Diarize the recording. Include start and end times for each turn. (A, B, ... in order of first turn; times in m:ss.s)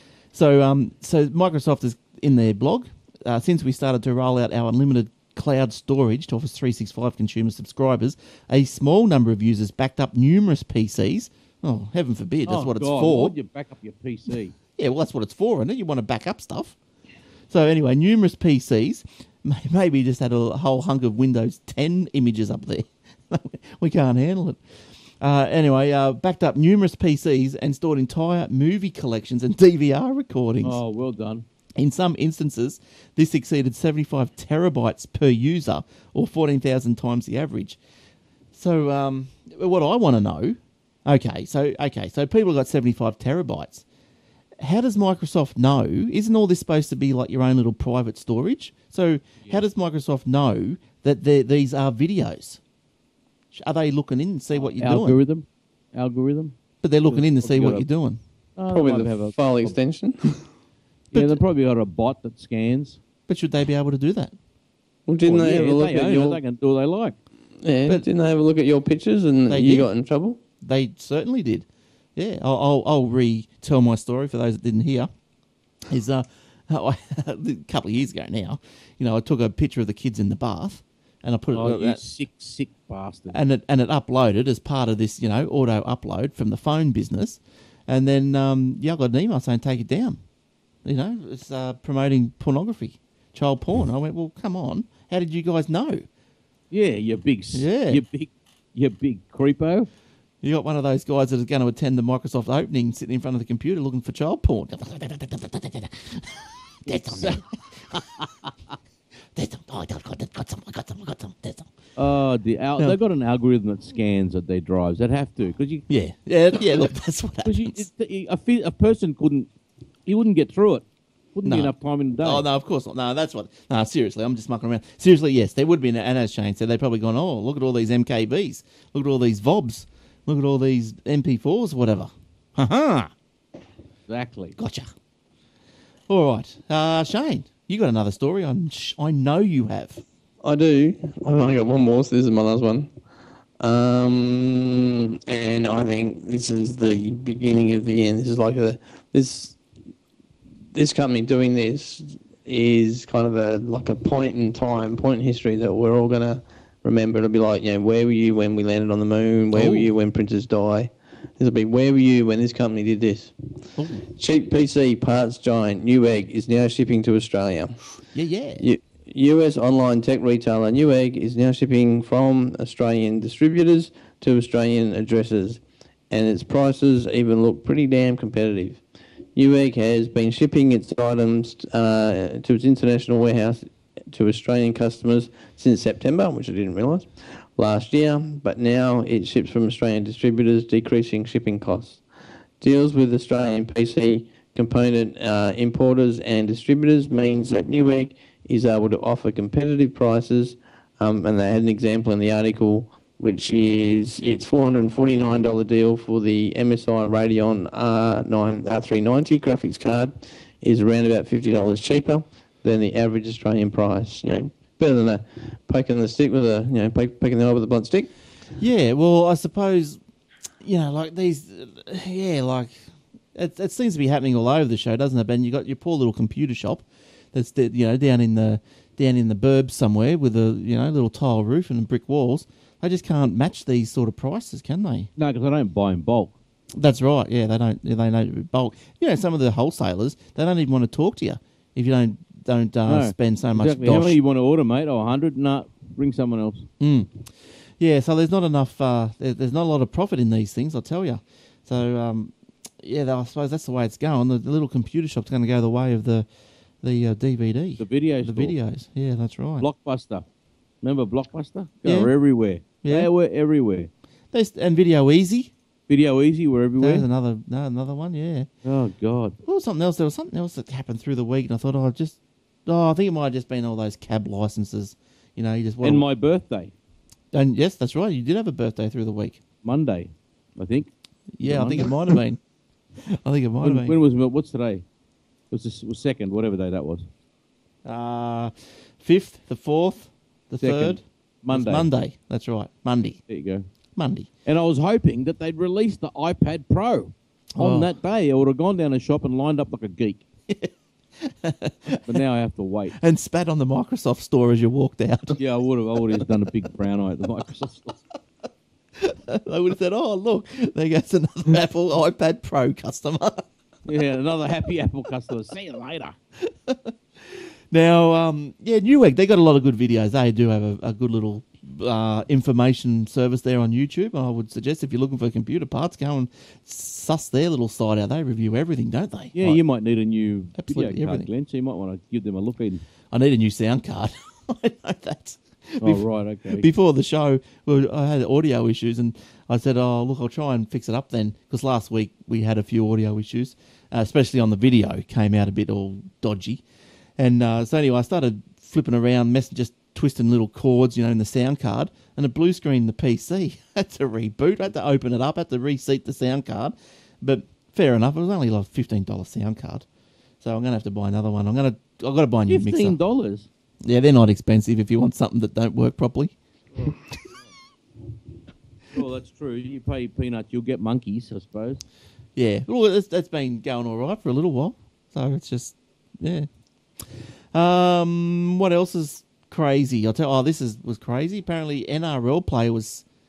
0:00.3-0:13.3 A
0:12.4-0:14.6 B
0:14.8-0:16.8 A
0:17.5-0:24.6 A
0:25.2-0:30.8 A
0:30.6-0:31.4 B
0:31.8-0:37.8 A
0:38.5-0:43.8 A
0:44.6-0:52.6 A
0:53.5-0:55.2 A
0:54.8-0:57.8 B
0:56.8-0:58.2 A
0:58.6-0:59.8 B
0:58.7-1:00.4 C
1:01.1-1:03.0 B
1:01.1-1:01.4 A
1:03.3-1:04.3 A
1:05.1-1:06.4 C
1:05.2-1:07.2 B
1:07.6-1:10.4 C
1:09.5-1:09.9 A
1:10.6-1:15.1 A
1:15.9-1:22.0 A
1:21.5-1:23.4 B
1:23.3-1:30.2 A
1:30.8-1:36.0 A
1:36.7-1:39.9 B
1:37.5-1:38.0 A
1:40.4-1:48.2 A
1:46.9-1:47.4 B
1:48.0-1:48.5 B
1:49.3-1:51.7 A
1:52.0-1:55.8 B
1:55.9-1:57.9 A
1:57.4-1:59.5 B
2:00.1-2:02.4 B
2:01.4-2:13.1 A
2:14.1-2:14.6 B
2:14.6-2:14.9 A
2:16.1-2:20.0 A
2:20.4-2:22.9 C
2:23.6-2:29.6 C
2:30.7-2:43.3 C
2:39.5-2:39.9 A
2:43.8-2:44.0 A
2:44.0-2:47.8 C
2:48.1-2:48.6 A
2:48.6-2:58.8 C
2:59.4-3:12.0 C
3:12.6-3:38.1 C
3:38.6-3:40.0 A
3:40.6-3:55.1 A
3:55.2-3:56.3 B
3:56.8-4:04.2 A
4:02.9-4:06.7 B
4:06.8-4:16.3 A
4:16.8-4:19.7 A
4:17.8-4:18.5 B
4:19.6-4:20.2 B
4:20.8-4:23.9 B
4:21.8-4:22.1 A
4:22.8-4:23.1 A
4:24.3-4:25.5 A
4:25.9-4:27.0 B
4:26.8-4:28.5 A
4:28.6-4:29.4 B
4:29.4-4:36.0 A
4:35.8-4:36.7 B
4:37.3-4:39.4 A
4:39.6-4:40.9 B
4:41.4-4:42.4 A
4:41.4-4:42.0 B
4:43.0-4:44.0 A
4:43.6-4:44.8 B
4:45.5-4:47.1 B
4:47.8-4:53.2 A
4:50.6-4:51.9 B
4:53.3-4:53.6 B
4:54.0-4:54.3 A
4:54.4-5:00.2 B
4:57.6-4:57.9 A
5:00.5-5:02.2 A
5:02.1-5:03.0 B
5:02.9-5:05.4 A
5:05.4-5:08.0 B
5:09.0-5:13.4 A
5:13.8-5:16.2 B
5:16.4-5:29.6 A
5:29.3-5:32.8 B
5:30.6-5:31.3 A
5:33.1-5:46.6 A
5:35.8-5:36.7 B
5:47.2-5:59.8 A
6:00.4-6:03.0 A
6:02.5-6:03.5 B
6:03.8-6:06.3 A
6:08.9-6:11.8 B
6:12.4-6:16.5 A
6:17.0-6:23.0 A